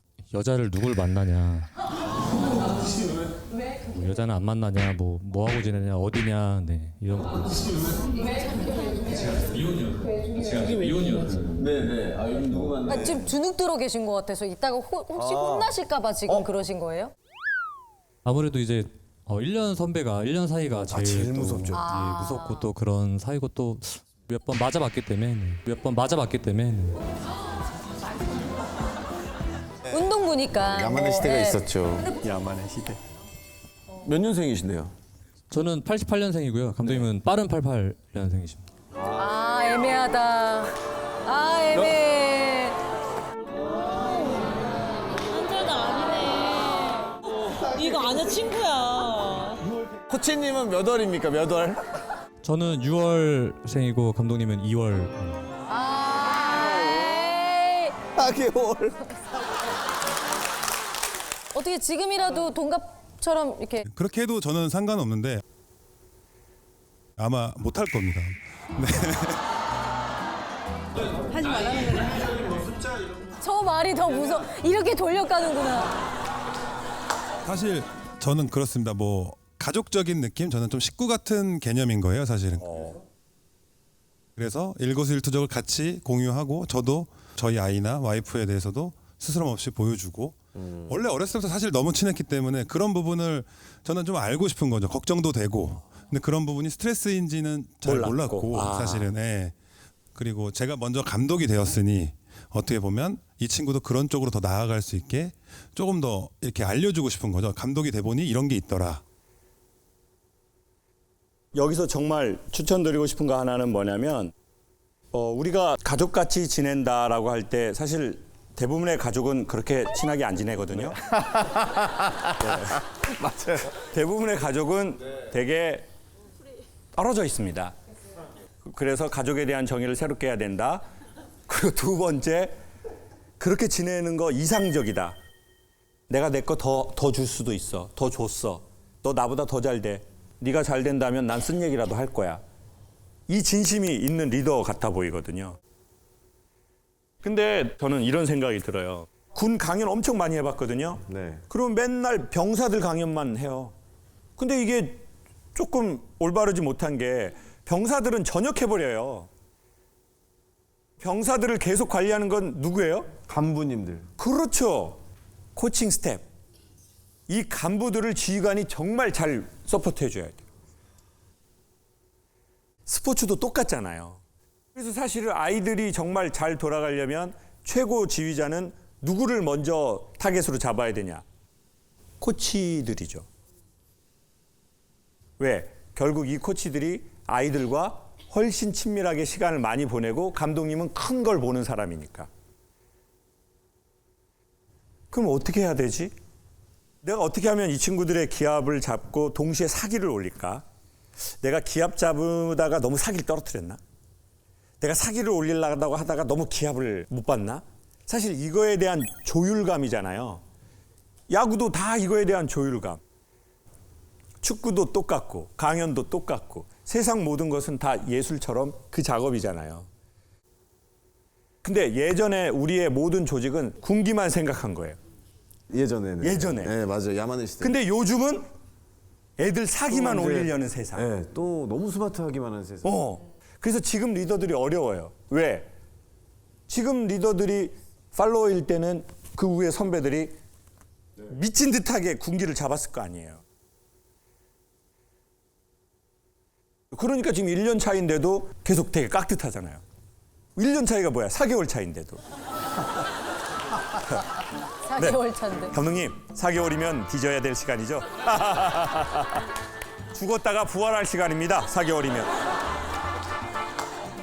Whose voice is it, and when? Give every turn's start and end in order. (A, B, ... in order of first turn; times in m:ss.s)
0:00.3-0:01.7 A
0:03.8-0:08.1 A
0:08.2-0:09.3 B
0:09.1-0:11.5 A
0:11.5-0:13.3 C
0:12.9-0:17.1 B
0:15.1-0:15.8 C
0:18.2-0:27.0 A
0:20.7-0:21.9 C
0:21.7-0:22.7 B
0:29.8-0:32.2 C
0:29.9-0:31.6 B
0:32.6-0:32.9 D
0:34.0-0:34.9 C
0:35.5-0:38.6 A
0:39.0-0:39.3 C
0:39.1-0:40.7 B
0:41.2-0:42.8 B
0:45.2-0:49.6 E
0:50.1-0:51.8 C
0:52.4-0:55.5 A
0:55.7-0:58.0 B
0:58.1-0:59.0 C
1:01.5-1:03.9 B
1:03.9-1:05.4 F
1:07.2-1:09.4 F
1:13.4-1:15.9 B
1:17.4-1:22.7 F
1:22.6-1:23.0 D
1:24.4-1:39.5 F
1:37.8-1:39.1 D
1:40.1-1:49.0 F
1:51.5-1:54.3 D
1:55.1-2:01.0 D
2:01.1-2:03.7 C
2:03.9-2:05.9 D
2:06.9-2:07.7 D
2:08.6-2:10.8 D
2:11.5-2:12.6 D
2:13.4-2:15.1 D
2:16.1-2:22.4 D
2:23.3-2:25.6 D
2:27.2-2:33.7 D
2:31.0-2:31.4 C
2:34.4-2:35.0 D
2:35.5-2:39.3 D
2:41.0-2:43.1 D
2:43.3-2:44.0 C
2:44.2-2:45.0 D
2:45.6-2:46.3 D
2:47.3-2:50.4 D
2:52.8-2:54.2 D
2:54.7-3:01.2 D
3:02.2-3:03.2 D
3:05.4-3:12.3 D
3:15.1-3:16.2 D
3:17.0-3:20.6 D
3:21.4-3:23.8 D
3:24.8-3:30.4 D
3:31.3-3:33.0 D
3:34.4-3:39.9 D
3:41.6-3:45.0 D
3:45.7-3:47.7 C
3:46.2-3:46.7 D
3:47.6-3:48.5 D
3:49.4-3:51.1 D
3:49.9-3:52.9 C
3:52.8-3:55.7 D
3:56.7-4:00.3 D
4:01.3-4:03.4 D
4:06.9-4:09.8 D
4:10.6-4:12.2 D
4:14.8-4:15.8 B
4:15.7-4:19.4 D
4:20.1-4:22.3 D